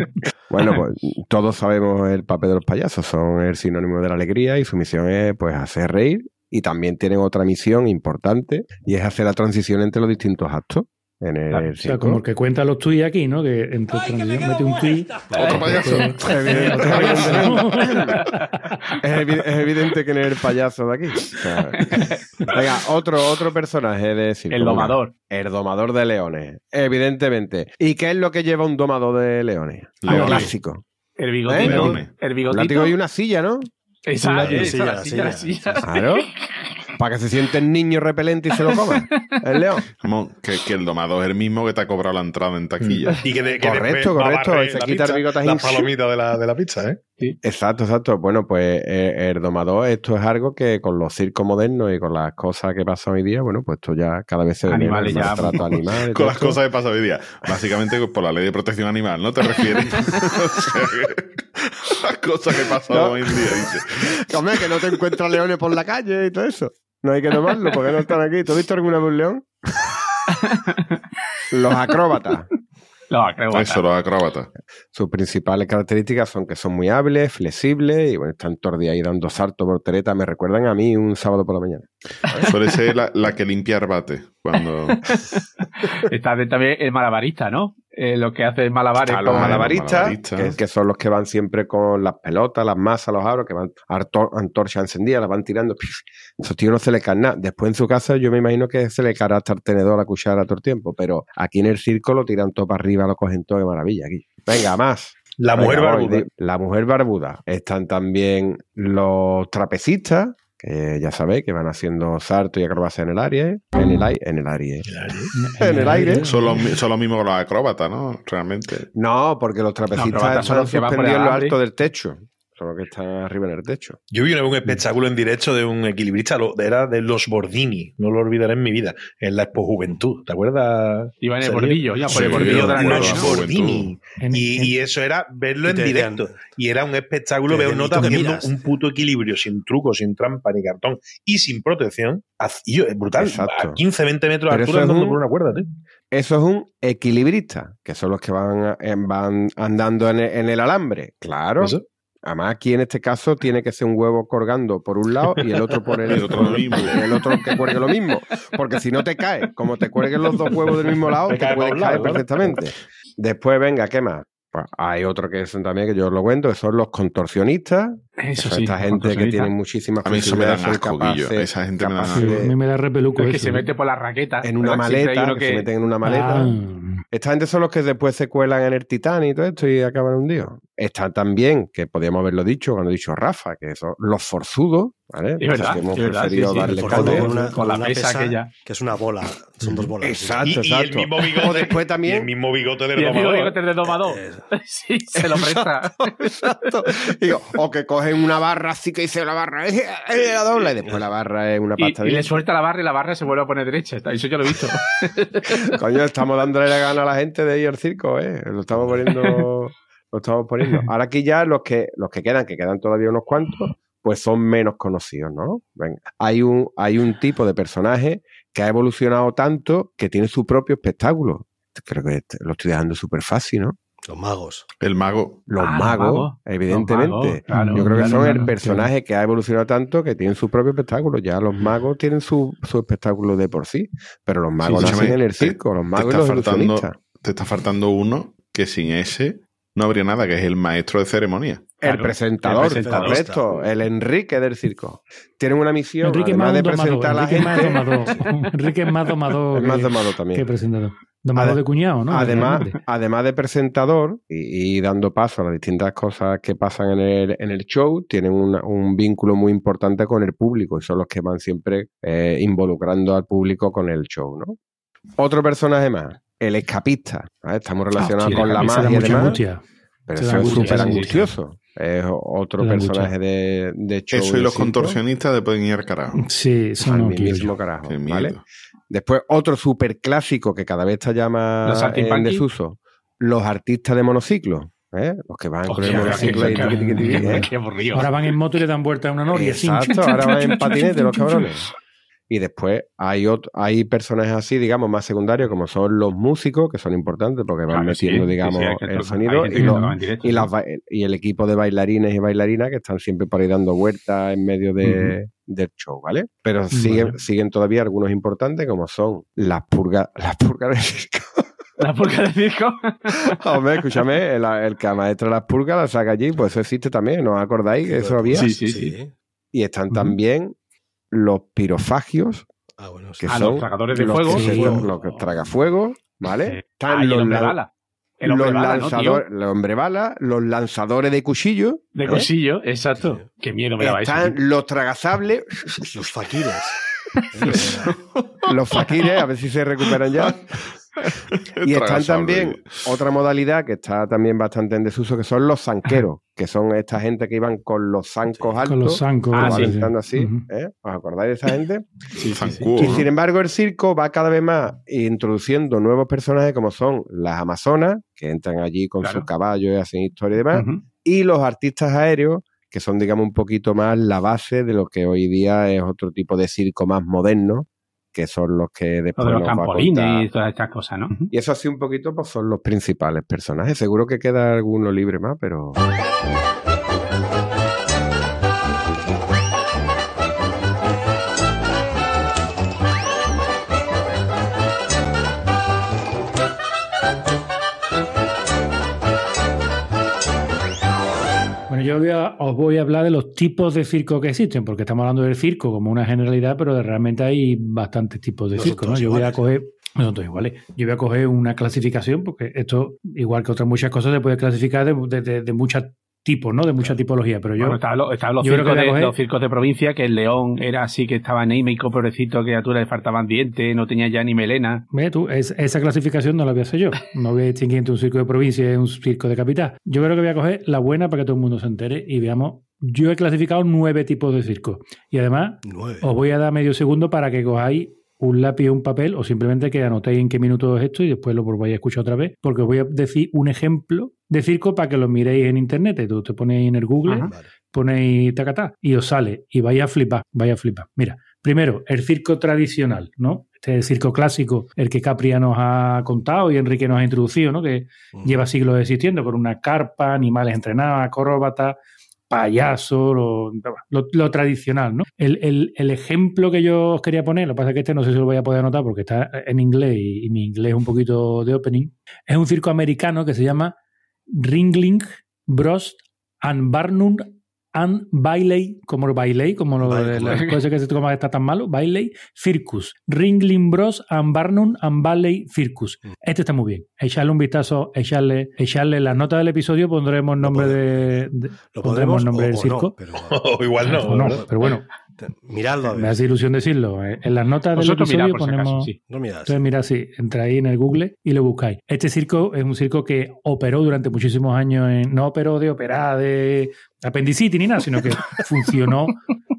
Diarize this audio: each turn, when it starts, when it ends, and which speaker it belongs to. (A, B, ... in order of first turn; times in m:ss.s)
0:00.5-0:12.2 A
0:11.5-0:18.2 B
0:15.3-0:17.0 C
0:15.4-0:15.8 D
0:16.2-0:18.2 A
0:19.0-0:30.8 A
0:21.8-0:22.2 D
0:24.5-0:25.1 D
0:30.0-0:30.5 C
0:30.2-0:30.5 E
0:31.2-0:32.9 D
0:31.5-0:33.7 A
0:31.5-0:32.1 C
0:34.1-0:36.3 D
0:34.2-0:35.9 E
0:35.8-0:36.3 A
0:37.0-0:39.9 A
0:38.6-0:39.3 D
0:40.0-0:43.3 C
0:43.2-0:47.0 F
0:43.6-0:45.9 A
0:47.4-0:56.6 A
0:54.7-0:55.7 D
0:54.9-1:04.8 C
1:02.9-1:09.5 A
1:10.3-1:11.0 D
1:11.5-1:12.5 A
1:13.1-1:13.8 D
1:13.5-1:14.5 C
1:14.9-1:22.5 A
1:22.4-1:25.2 C
1:25.8-1:29.7 D
1:29.0-1:54.9 A
1:29.2-1:30.6 C
1:45.4-1:46.2 F
1:54.9-1:55.3 F
1:55.3-1:56.6 B
1:55.6-1:56.3 A
1:56.0-1:58.9 C
1:58.9-2:04.0 A
1:59.9-2:01.6 D
2:04.1-2:25.7 F
2:11.2-2:13.3 D
2:12.0-2:13.9 C
2:14.2-2:14.8 B
2:15.6-2:16.5 E
2:17.5-2:18.6 E
2:23.2-2:23.8 A
2:24.5-2:25.2 A
2:26.1-2:52.5 A
2:36.0-2:37.2 C
2:41.2-2:42.6 F
2:48.2-2:49.5 D
2:50.0-2:52.4 C
2:52.1-2:53.7 B
2:53.2-2:55.7 D
2:54.4-2:56.6 A
2:56.0-2:57.0 B
2:57.1-3:07.6 A
3:05.4-3:08.5 D
3:06.5-3:10.5 E
3:07.0-3:07.2 F
3:09.7-3:12.3 A
3:10.4-3:13.6 F
3:13.0-3:16.3 D
3:14.0-3:14.5 E
3:15.1-3:22.4 A
3:21.8-3:25.6 D
3:25.7-3:43.8 A
3:44.1-3:44.6 E
3:44.8-3:45.4 C
3:45.5-3:57.0 A
3:45.6-3:48.4 D
3:47.5-3:48.9 B
3:54.6-4:01.8 C
4:01.8-4:08.1 A
4:01.8-4:03.2 D
4:02.5-4:03.7 E
4:06.0-4:12.7 B
4:09.5-4:10.4 A
4:11.4-4:24.6 A
4:12.3-4:12.6 D
4:25.2-4:29.4 A
4:27.9-4:29.6 B
4:28.3-4:29.1 D
4:30.1-4:35.0 A
4:30.1-4:31.3 B
4:30.4-4:31.1 D
4:32.6-4:33.1 B
4:34.1-4:36.3 C
4:36.1-4:37.5 B
4:36.8-4:38.3 A
4:37.8-4:38.4 C
4:38.9-4:47.5 A
4:41.6-4:42.4 D
4:45.6-4:48.1 D
4:46.0-4:51.5 B
4:49.3-4:51.7 A
4:52.3-5:11.5 A
4:57.7-5:00.5 D
4:59.6-5:00.0 B
5:06.7-5:07.2 B
5:11.8-5:13.4 D
5:13.3-5:18.5 A
5:17.8-5:19.1 E
5:18.3-5:18.9 D
5:19.5-5:20.5 A
5:21.1-5:22.4 A
5:22.8-5:23.7 E
5:23.2-5:27.6 A
5:23.3-5:25.2 D
5:24.2-5:25.1 E
5:24.3-5:24.8 B
5:26.4-5:27.7 D
5:28.2-5:29.2 D
5:28.2-5:32.3 A
5:31.9-5:34.4 D
5:33.0-5:33.2 E
5:33.8-5:36.1 A
5:35.9-5:36.7 E
5:37.3-5:37.9 E
5:37.5-5:39.0 C
5:38.5-5:40.4 A
5:39.9-5:40.4 C
5:41.0-5:43.0 C
5:41.6-5:51.9 A
5:48.2-5:48.5 E
5:48.7-5:50.4 B
5:49.3-5:49.7 D
5:52.2-5:52.7 D
5:52.3-5:53.1 C
5:52.8-6:10.3 A
5:59.0-5:59.3 D
6:00.5-6:00.8 D
6:09.2-6:11.2 D
6:11.3-6:15.8 A
6:31.7-6:47.8 B
6:38.5-6:39.4 E
6:47.6-6:54.8 D
6:48.4-6:49.1 B
6:54.9-7:31.8 B
7:05.6-7:06.1 E
7:17.1-7:17.3 D
7:17.1-7:17.5 E
7:28.1-7:28.4 E
7:32.3-7:43.7 B
7:44.3-8:02.9 B
7:49.8-7:50.5 E
7:50.3-7:50.5 D
8:00.4-8:04.6 E
8:03.3-8:04.5 F
8:04.0-8:04.8 B
8:05.2-8:06.2 E
8:06.0-8:08.9 B
8:07.8-8:09.0 D
8:09.1-8:09.6 E
8:09.4-8:19.2 B